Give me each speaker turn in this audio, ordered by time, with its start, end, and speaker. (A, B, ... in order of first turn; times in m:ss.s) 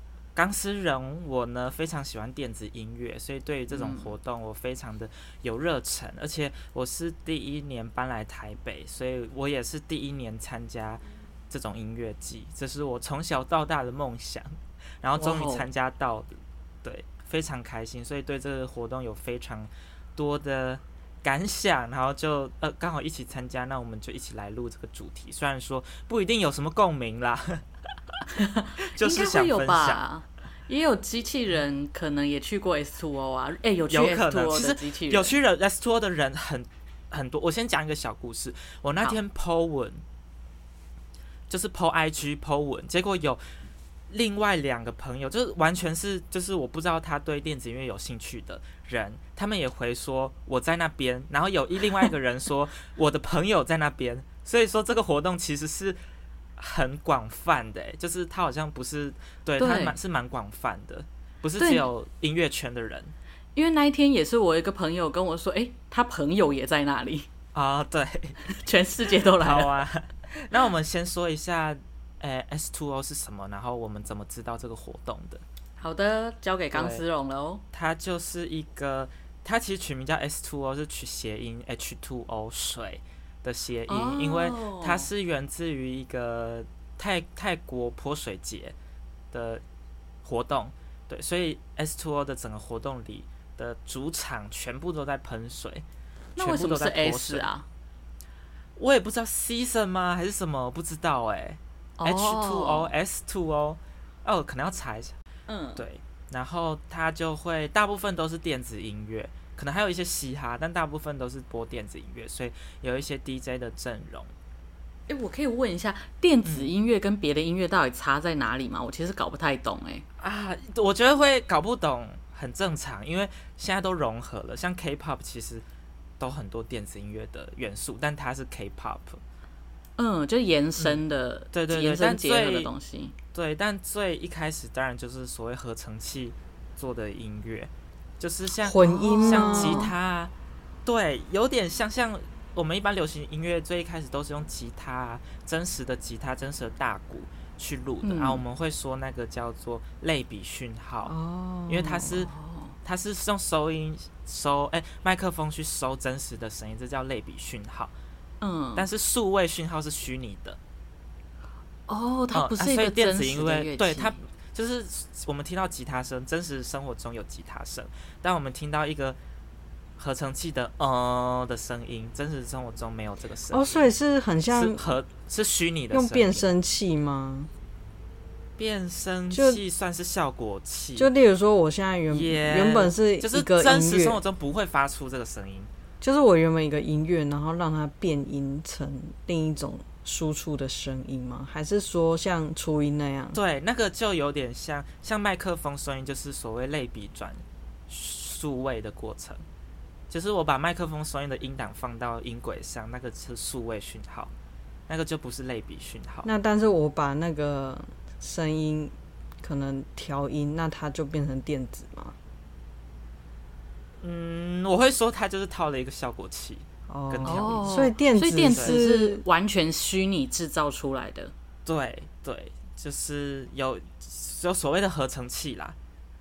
0:00.3-0:27.6 A
0:03.7-0:04.1 B
0:15.2-0:15.7 B
0:28.3-0:35.4 B
0:28.9-0:30.0 A
0:33.9-0:40.0 A
0:41.5-0:43.4 A
0:44.1-0:56.0 A
0:56.6-1:03.1 A
0:59.6-1:00.0 B
1:01.6-1:01.8 B
1:03.5-1:07.3 B
1:07.5-1:08.4 A
1:08.5-1:09.7 B
1:09.4-1:15.4 A
1:15.8-1:17.6 B
1:16.7-1:17.0 A
1:17.7-1:28.7 A
1:23.9-1:25.1 B
1:29.3-1:29.6 A
1:30.2-1:35.8 A
1:36.4-1:37.5 A
1:36.4-1:37.6 B
1:38.8-1:45.2 A
1:42.0-1:42.9 B
1:45.5-1:45.8 B
1:45.8-1:54.3 A
1:55.1-2:00.0 B
1:56.4-1:56.7 A
2:00.2-2:05.6 A
2:06.2-2:09.2 A
2:10.0-2:13.2 B
2:11.5-2:12.7 A
2:13.3-2:20.3 A
2:18.6-2:19.9 C
2:18.8-2:19.9 B
2:20.8-2:31.1 A
2:28.0-2:28.4 B
2:31.0-2:32.2 C
2:31.7-2:32.3 A
2:32.1-2:32.8 B
2:32.8-2:37.9 A
2:38.4-2:38.8 B
2:38.8-2:40.6 A
2:41.9-2:44.2 B
2:42.3-2:49.2 A
2:50.0-2:53.9 A
2:53.5-2:54.9 C
2:54.5-2:56.5 A
2:55.9-2:57.5 C
2:58.6-3:01.1 A
2:59.3-2:59.6 C
3:01.0-3:04.2 C
3:02.1-3:05.7 A
3:06.0-3:13.4 C
3:13.3-3:19.4 A
3:20.1-3:24.3 A
3:24.9-3:26.3 A
3:26.2-3:32.2 C
3:34.0-3:37.9 A
3:36.9-3:39.2 C
3:37.2-3:41.3 B
3:38.4-3:38.8 A
3:41.6-3:45.8 A